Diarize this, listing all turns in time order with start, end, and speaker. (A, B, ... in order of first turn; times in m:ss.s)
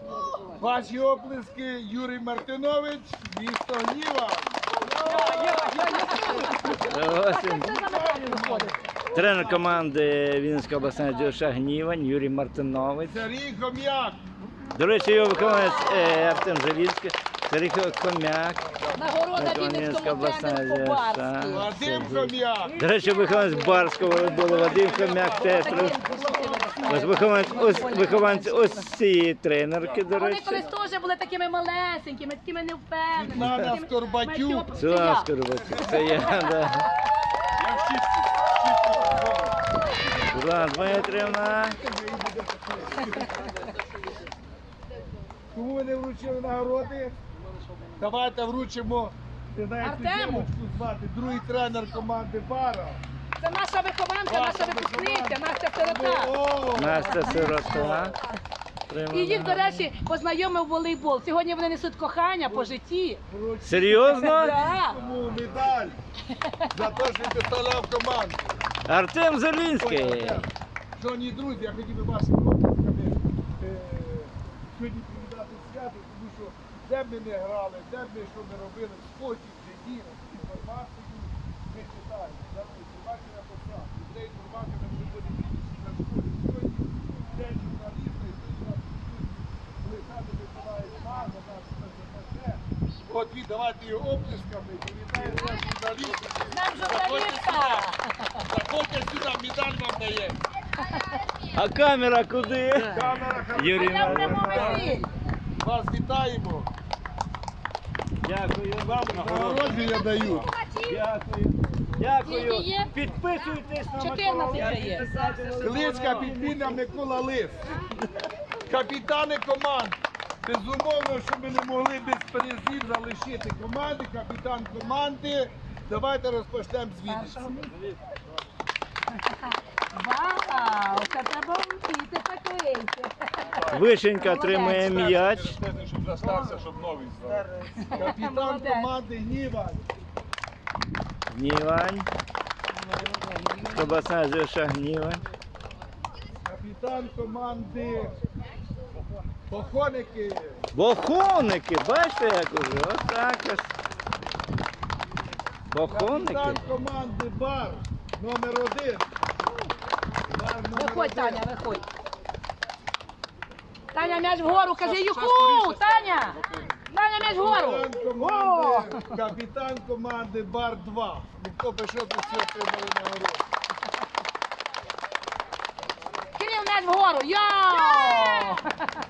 0:00.6-0:04.5 A
0:04.7-0:09.0 B
0:06.3-0:06.8 A
0:06.7-0:07.7 C
0:07.6-0:09.7 A
0:09.1-0:13.2 C
0:13.0-0:14.2 A
0:14.7-0:18.7 C
0:15.4-0:16.4 A
0:15.5-0:16.0 B
0:18.8-0:19.2 A
0:18.9-0:21.7 B
0:19.3-0:26.0 C
0:21.5-0:22.8 A
0:22.7-0:24.1 B
0:24.0-0:28.2 A
0:25.3-0:28.9 B
0:26.9-0:30.7 C
0:30.1-0:36.5 B
0:33.1-0:34.7 A
0:33.3-0:33.7 C
0:34.7-0:36.9 C
0:35.8-0:36.4 A
0:37.6-0:39.2 D
0:38.8-0:39.5 A
0:40.2-0:43.5 A
0:40.3-0:41.8 C
0:45.5-0:47.1 A
0:48.0-0:53.0 A
0:49.8-0:50.5 B
0:53.4-0:56.3 B
0:54.3-0:58.2 A
0:56.7-0:58.2 C
0:57.1-0:57.8 B
0:58.9-0:59.9 C
0:59.1-1:03.2 B
1:02.4-1:06.0 A
1:03.6-1:04.6 C
1:04.1-1:05.0 B
1:06.7-1:08.5 A
1:08.8-1:10.4 C
1:09.8-1:37.9 A
1:36.5-1:38.4 B
1:38.4-1:40.4 A
1:41.5-1:44.8 C
1:42.8-1:45.0 A
1:43.7-1:45.1 B
1:45.6-1:46.7 A
1:48.2-1:56.8 C
1:48.8-1:50.5 A
1:52.2-1:52.9 B
1:54.0-1:55.1 B
1:55.6-1:57.6 A
1:58.7-2:07.5 A
2:07.0-2:07.8 B
2:09.2-2:13.6 B
2:13.5-2:17.7 D
2:13.7-2:15.6 C
2:14.1-2:14.9 B
2:17.8-2:18.9 B
2:17.9-2:19.9 A
2:21.3-2:22.1 C
2:23.6-2:25.2 C
2:26.4-2:28.1 A
2:29.5-2:30.6 A
2:30.7-2:33.7 C
2:35.7-2:36.6 C
2:35.9-2:39.1 A
2:40.3-2:41.5 A
2:40.7-2:41.8 B
2:43.9-2:49.1 B
2:44.9-2:45.9 D
2:47.2-2:53.4 A
2:56.4-2:58.6 B